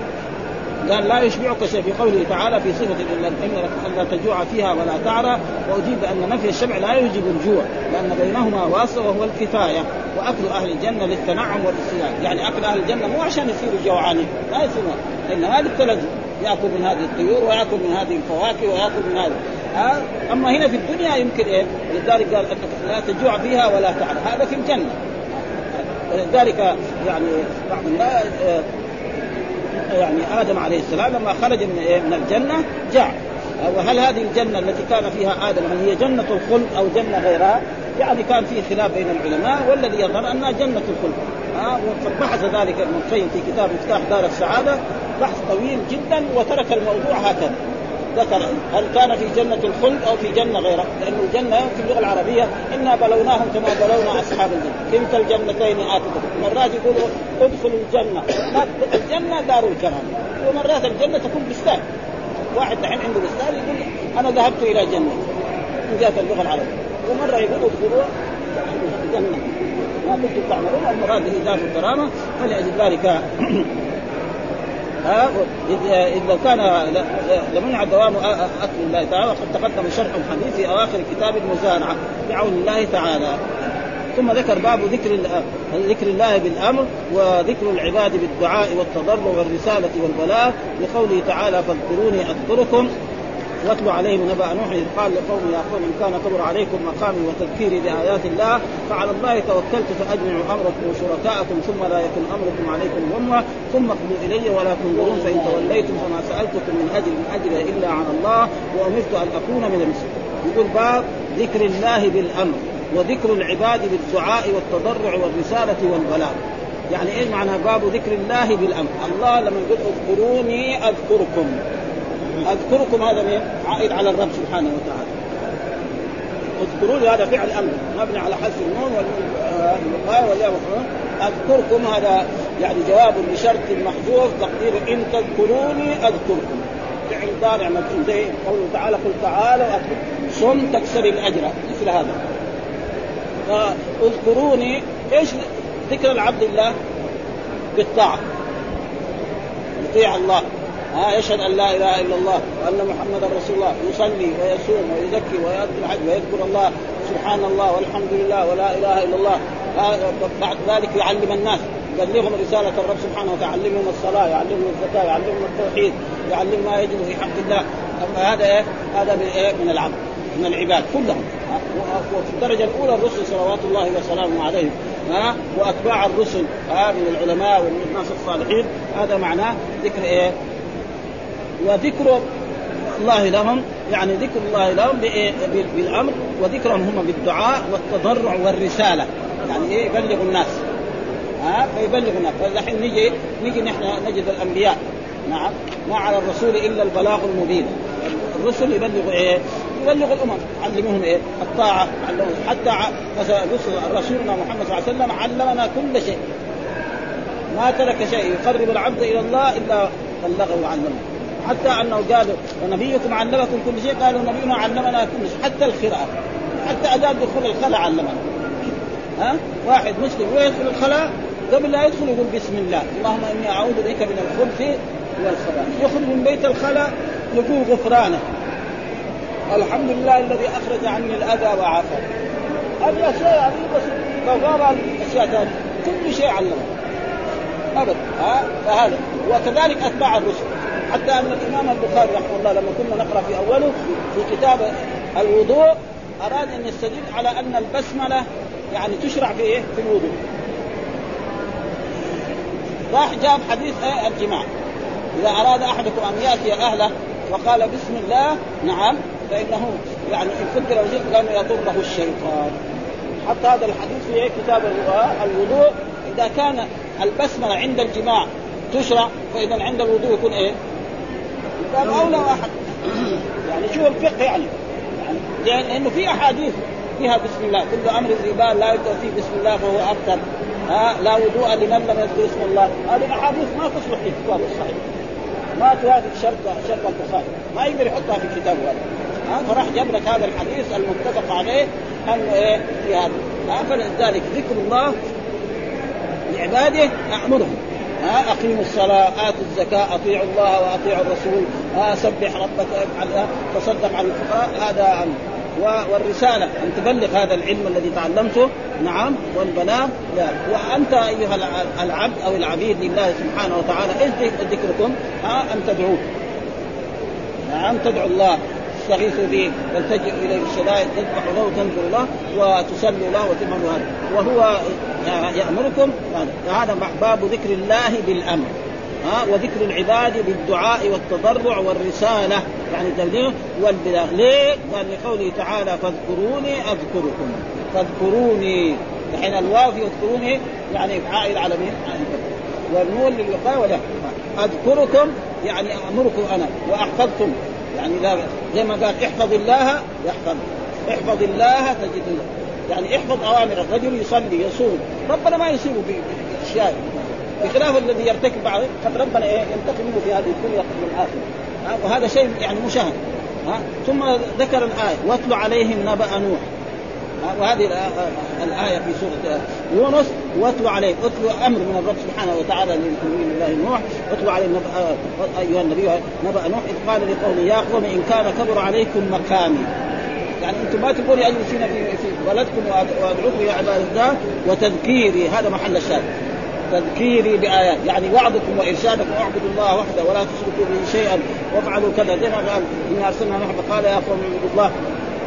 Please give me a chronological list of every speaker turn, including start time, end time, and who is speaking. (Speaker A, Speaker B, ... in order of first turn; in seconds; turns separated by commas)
Speaker A: 0.8-28.7, Speaker A: 29.8-47.6, Speaker A: 48.1-61.8, Speaker A: 62.5-65.3, Speaker A: 65.9-73.7, Speaker A: 75.0-83.4, Speaker A: 84.1-92.9, Speaker A: 93.6-116.4, Speaker A: 116.9-121.6, Speaker A: 122.4-125.1, Speaker A: 126.6-142.2, Speaker A: 143.5-146.7, Speaker A: 147.7-148.2, Speaker A: 149.8-180.3, Speaker A: 181.6-182.2, Speaker A: 183.0-190.6, Speaker A: 191.4-206.2, Speaker A: 207.5-218.2, Speaker A: 219.2-228.2, Speaker A: 229.5-232.0, Speaker A: 232.8-236.7, Speaker A: 237.8-250.2, Speaker A: 252.9-254.4, Speaker A: 255.2-262.5, Speaker A: 263.2-270.5, Speaker A: 271.6-284.8, Speaker A: 285.6-294.9, Speaker A: 296.3-316.0, Speaker A: 317.5-366.4, Speaker A: 367.2-379.7, Speaker A: 380.4-386.1, Speaker A: 386.7-394.7